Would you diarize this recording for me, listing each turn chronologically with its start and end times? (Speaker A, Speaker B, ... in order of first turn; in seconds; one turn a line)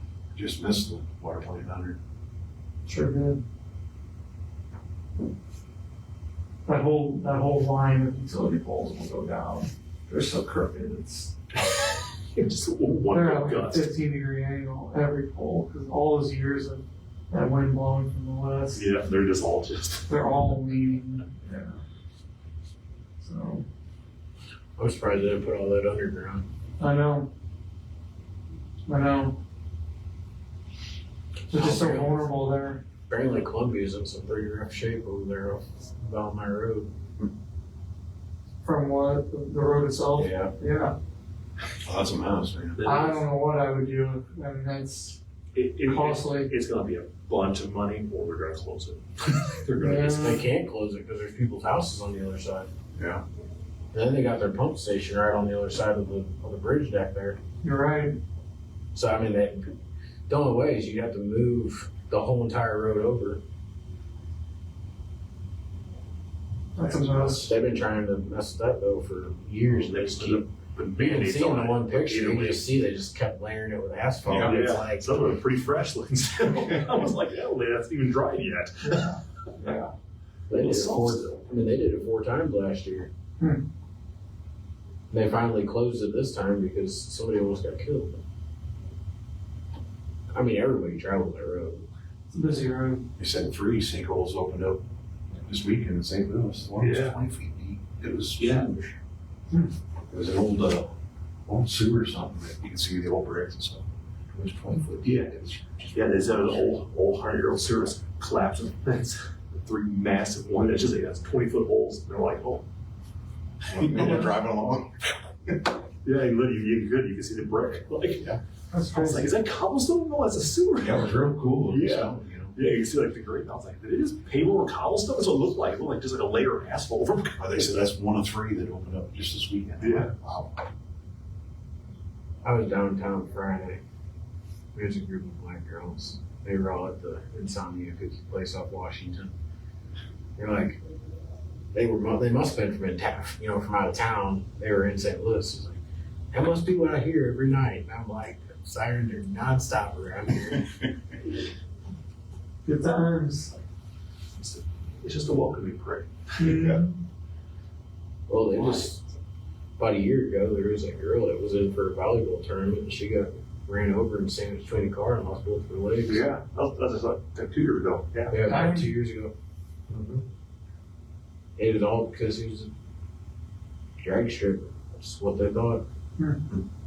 Speaker A: 0.3-2.0
Speaker B: 2.9-3.4
Speaker B: 6.7-11.3
Speaker C: 12.3-13.9
Speaker B: 13.1-18.9
Speaker C: 18.7-20.1
Speaker B: 20.1-21.8
Speaker B: 23.2-23.6
Speaker D: 24.8-26.5
Speaker B: 26.8-27.3
Speaker B: 28.9-29.4
Speaker D: 31.5-32.3
Speaker B: 31.5-32.8
Speaker D: 33.1-36.9
Speaker B: 38.6-40.9
Speaker D: 40.2-40.5
Speaker A: 41.8-42.8
Speaker C: 42.8-43.2
Speaker B: 42.8-45.2
Speaker C: 45.5-50.4
Speaker B: 45.8-46.5
Speaker B: 49.8-50.4
Speaker D: 50.1-52.7
Speaker A: 53.0-53.2
Speaker D: 53.9-57.4
Speaker B: 57.6-58.2
Speaker D: 58.9-59.7
Speaker D: 60.3-63.4
Speaker B: 66.8-67.5
Speaker A: 66.9-67.4
Speaker D: 67.4-75.2
Speaker C: 69.7-72.7
Speaker A: 74.2-74.6
Speaker C: 74.4-79.9
Speaker D: 80.5-83.1
Speaker C: 80.5-81.4
Speaker D: 85.1-88.2
Speaker D: 90.3-91.8
Speaker B: 92.3-93.1
Speaker A: 93.2-94.8
Speaker A: 95.4-99.0
Speaker C: 96.8-97.2
Speaker C: 98.4-98.7
Speaker A: 100.1-100.9
Speaker A: 101.5-106.8
Speaker C: 105.0-105.3
Speaker C: 105.9-112.7
Speaker A: 113.7-115.7
Speaker C: 113.7-114.3
Speaker C: 116.0-118.3
Speaker B: 118.7-119.3
Speaker C: 118.9-127.7
Speaker A: 120.8-122.5
Speaker A: 127.4-130.6
Speaker C: 129.8-130.1
Speaker D: 132.4-133.8
Speaker D: 134.7-139.3
Speaker D: 140.4-140.8
Speaker D: 141.7-145.8
Speaker D: 146.3-150.7
Speaker B: 152.7-153.6
Speaker C: 154.4-156.8
Speaker B: 156.4-156.9
Speaker D: 158.3-159.0
Speaker D: 159.8-166.3
Speaker C: 166.1-168.4
Speaker D: 168.3-169.3
Speaker B: 168.4-168.9
Speaker C: 169.9-170.2
Speaker D: 171.6-172.7
Speaker D: 174.0-175.8